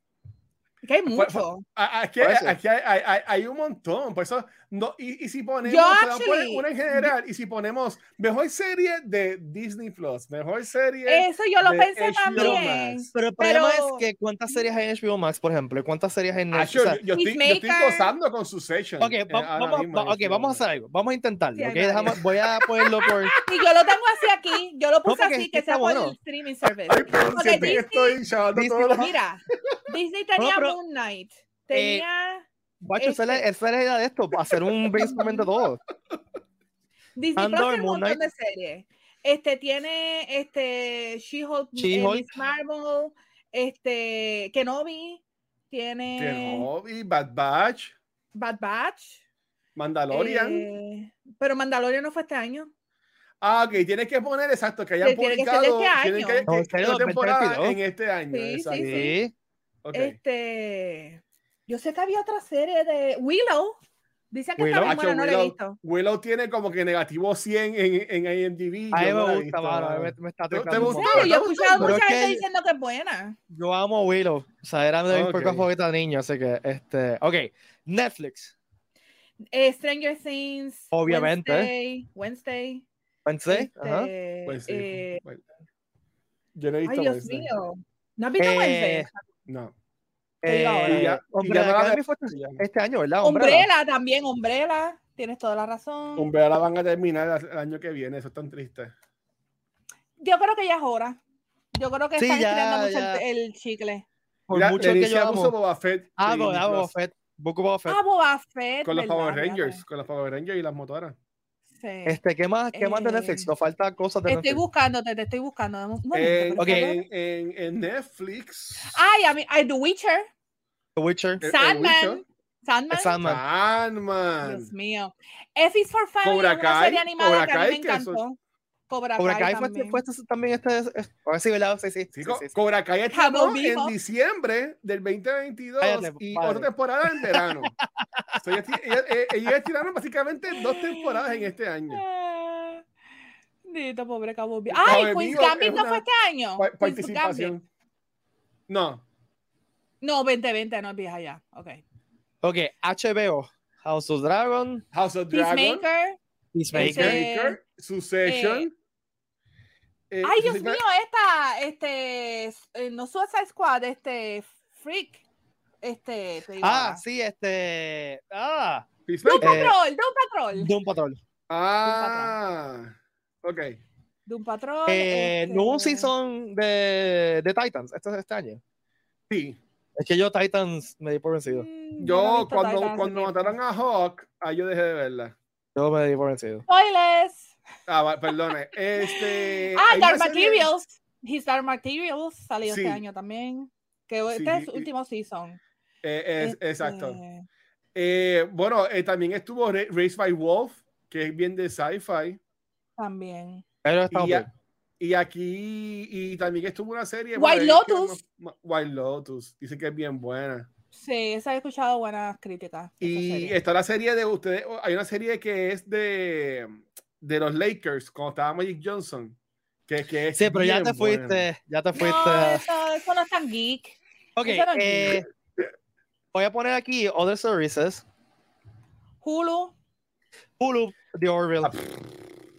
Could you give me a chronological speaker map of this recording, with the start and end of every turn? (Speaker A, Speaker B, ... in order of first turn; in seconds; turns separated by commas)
Speaker A: 0.8-1.6, Speaker B: 1.1-13.1, Speaker C: 2.2-2.6, Speaker A: 5.7-7.1, Speaker A: 11.1-14.6, Speaker C: 12.3-17.0, Speaker B: 16.5-20.6, Speaker A: 17.1-18.1, Speaker C: 19.0-23.4, Speaker A: 21.6-22.2, Speaker B: 22.5-23.4, Speaker A: 23.4-28.2, Speaker C: 25.1-26.1, Speaker B: 26.7-29.2, Speaker C: 28.5-29.1, Speaker A: 29.0-33.4, Speaker C: 30.4-30.8, Speaker C: 31.7-32.1, Speaker C: 32.8-35.8, Speaker A: 35.0-35.5, Speaker A: 37.2-46.7, Speaker C: 37.4-38.2, Speaker C: 41.8-42.3, Speaker B: 46.2-48.0, Speaker A: 48.4-49.2, Speaker B: 49.8-50.7, Speaker A: 50.1-52.7, Speaker B: 53.4-59.1, Speaker A: 55.0-56.5, Speaker C: 56.5-57.8, Speaker A: 58.3-59.2, Speaker C: 58.8-59.3, Speaker B: 59.8-60.2, Speaker A: 59.9-63.8, Speaker A: 64.3-65.8, Speaker C: 64.6-65.0, Speaker B: 64.8-72.0, Speaker C: 68.9-72.4, Speaker A: 70.7-73.4, Speaker C: 73.5-78.5, Speaker B: 75.1-75.7, Speaker A: 79.5-82.9, Speaker C: 80.9-81.7, Speaker C: 83.2-84.1, Speaker A: 83.5-85.2, Speaker B: 84.5-85.4, Speaker B: 86.5-87.5, Speaker A: 86.9-89.2, Speaker C: 88.4-89.1, Speaker B: 89.5-89.7, Speaker C: 90.4-93.7, Speaker A: 90.5-91.1, Speaker B: 90.9-92.6, Speaker A: 93.2-96.3, Speaker B: 96.2-98.9, Speaker A: 100.2-101.2, Speaker A: 101.7-104.1, Speaker C: 102.2-103.2, Speaker C: 104.5-105.5, Speaker B: 104.5-106.9, Speaker C: 106.2-108.0, Speaker A: 107.9-109.8, Speaker B: 108.8-111.2, Speaker A: 111.8-112.2, Speaker C: 112.1-114.6, Speaker A: 112.7-113.5, Speaker A: 114.3-117.0, Speaker B: 116.1-119.0, Speaker C: 116.6-116.9, Speaker A: 118.8-120.3, Speaker C: 121.0-121.4, Speaker B: 121.4-122.2, Speaker A: 121.4-123.2, Speaker C: 122.9-123.4, Speaker B: 123.2-124.7, Speaker A: 124.4-128.4, Speaker B: 126.2-128.2, Speaker A: 128.9-130.0, Speaker C: 129.2-132.5, Speaker B: 132.1-137.7, Speaker A: 133.1-133.9, Speaker C: 135.8-138.8, Speaker B: 138.4-142.0, Speaker A: 140.5-142.8, Speaker A: 143.7-147.5, Speaker B: 144.7-146.1, Speaker B: 146.6-147.7, Speaker B: 148.7-149.0, Speaker A: 150.0-151.8, Speaker C: 152.4-154.8, Speaker B: 154.9-155.8, Speaker A: 155.3-156.2, Speaker C: 156.5-157.2, Speaker A: 156.7-157.6, Speaker B: 156.8-158.7, Speaker A: 158.2-158.7, Speaker B: 160.1-160.8, Speaker A: 160.2-165.2, Speaker A: 165.8-167.0, Speaker C: 166.6-168.9, Speaker B: 169.1-169.7, Speaker A: 169.2-170.7, Speaker C: 169.4-169.8, Speaker C: 170.6-171.2, Speaker B: 171.5-173.8, Speaker A: 171.8-172.4, Speaker A: 174.3-176.1, Speaker C: 174.9-178.6, Speaker B: 179.3-179.6, Speaker C: 180.0-181.7, Speaker A: 181.5-183.6, Speaker B: 182.0-185.4, Speaker C: 185.8-186.7, Speaker A: 186.7-187.5, Speaker B: 187.9-190.7, Speaker A: 189.0-195.6, Speaker B: 192.7-193.0, Speaker B: 194.3-194.9, Speaker B: 196.0-197.2, Speaker A: 196.4-197.5, Speaker B: 197.9-202.4, Speaker A: 203.0-203.6, Speaker C: 203.8-204.5, Speaker B: 204.1-204.5, Speaker B: 205.0-210.7, Speaker A: 207.4-208.2, Speaker A: 210.9-213.6, Speaker B: 213.0-219.4, Speaker B: 219.9-221.5, Speaker C: 220.3-222.6, Speaker A: 221.9-225.2, Speaker C: 224.4-225.3, Speaker C: 226.3-228.0, Speaker A: 229.2-229.8, Speaker C: 230.6-231.7, Speaker B: 231.6-232.1